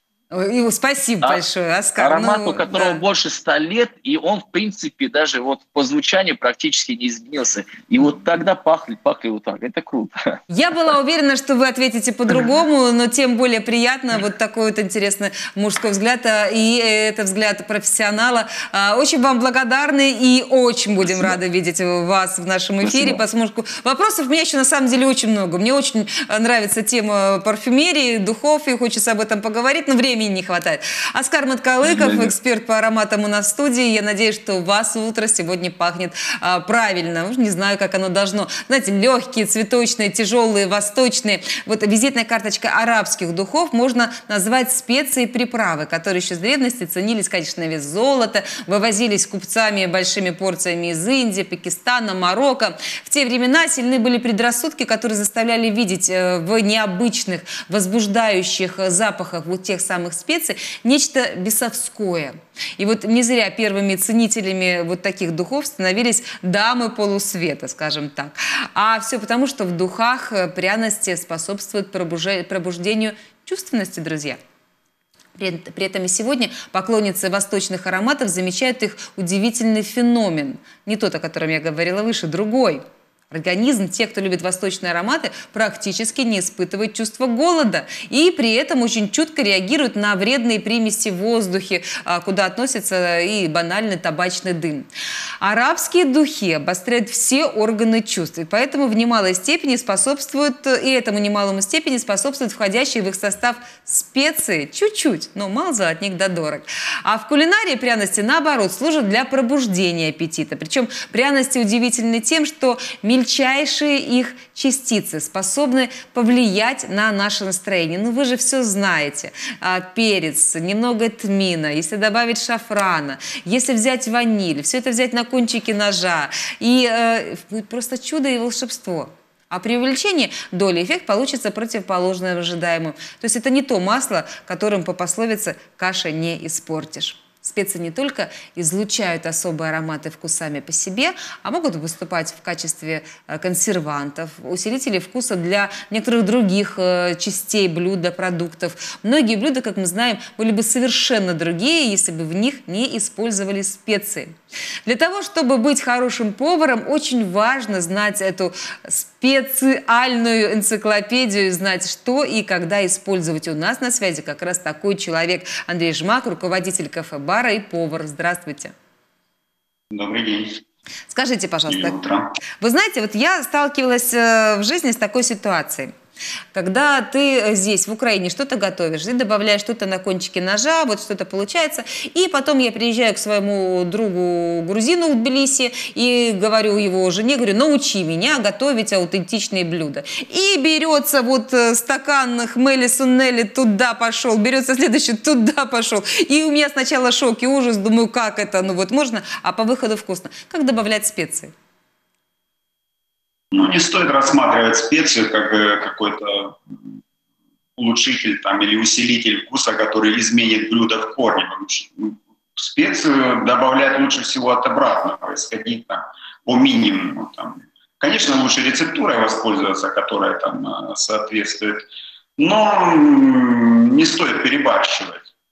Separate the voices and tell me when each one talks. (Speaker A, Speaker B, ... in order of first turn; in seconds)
Speaker A: 0.3-3.0, 10.5-74.4, 75.3-94.9, 95.4-154.3, 154.8-168.7, 171.1-171.9, 172.6-175.9, 176.5-201.5
Speaker B: 2.0-10.4, 21.0-21.4, 22.8-23.2, 31.8-32.3
Speaker C: 169.9-170.6, 171.7-172.2, 203.5-206.6, 207.8-221.8, 222.4-225.3